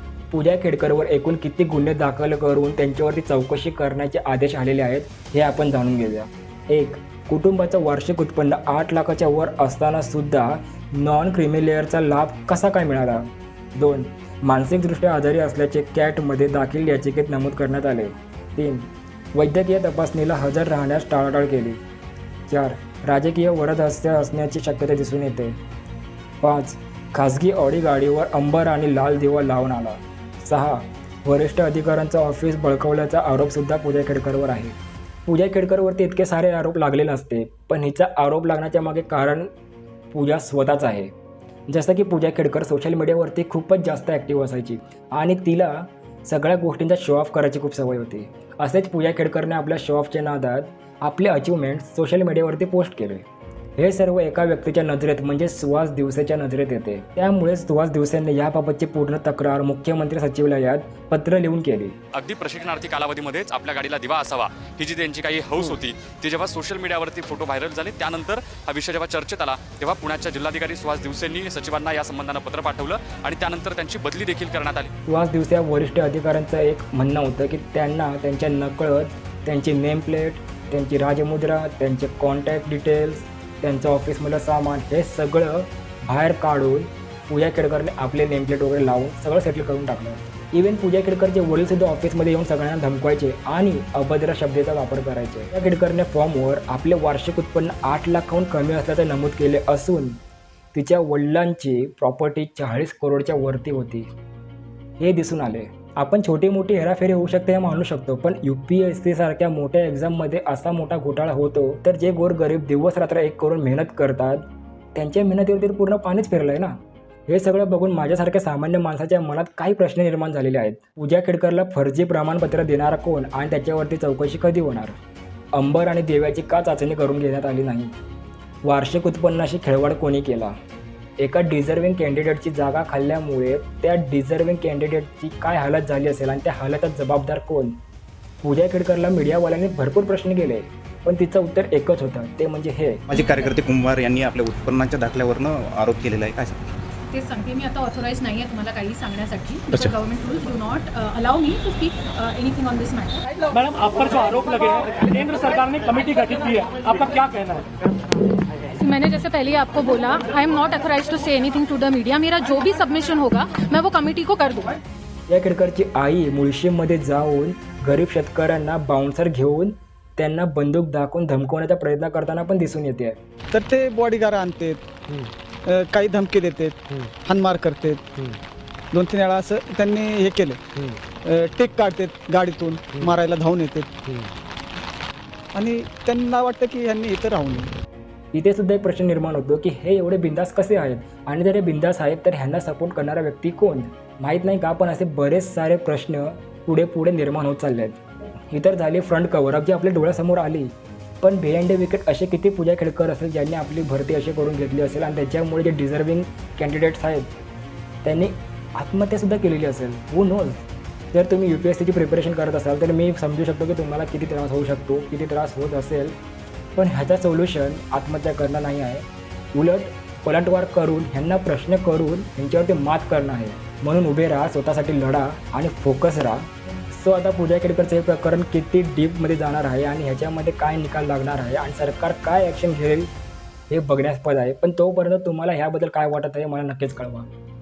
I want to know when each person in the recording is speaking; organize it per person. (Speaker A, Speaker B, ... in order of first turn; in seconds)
Speaker A: 0.3-21.8, 22.5-25.6, 26.4-39.5, 40.1-41.1, 41.7-53.2, 53.8-62.0, 75.1-100.2, 100.7-104.1, 105.0-114.4, 115.0-116.8, 117.3-125.0, 125.5-127.9, 128.7-130.6, 131.2-137.8, 138.4-143.1, 165.3-173.2, 188.3-207.3, 208.0-216.2, 216.8-233.1, 233.7-237.3
Speaker B: 62.1-74.9
Speaker C: 143.1-146.7, 149.7-150.0
Speaker D: 143.2-143.5, 147.1-153.2, 158.7-164.8
Speaker E: 153.5-157.7
Speaker F: 173.5-174.8, 175.7-178.3, 178.9-180.7, 181.2-184.0, 185.5-187.7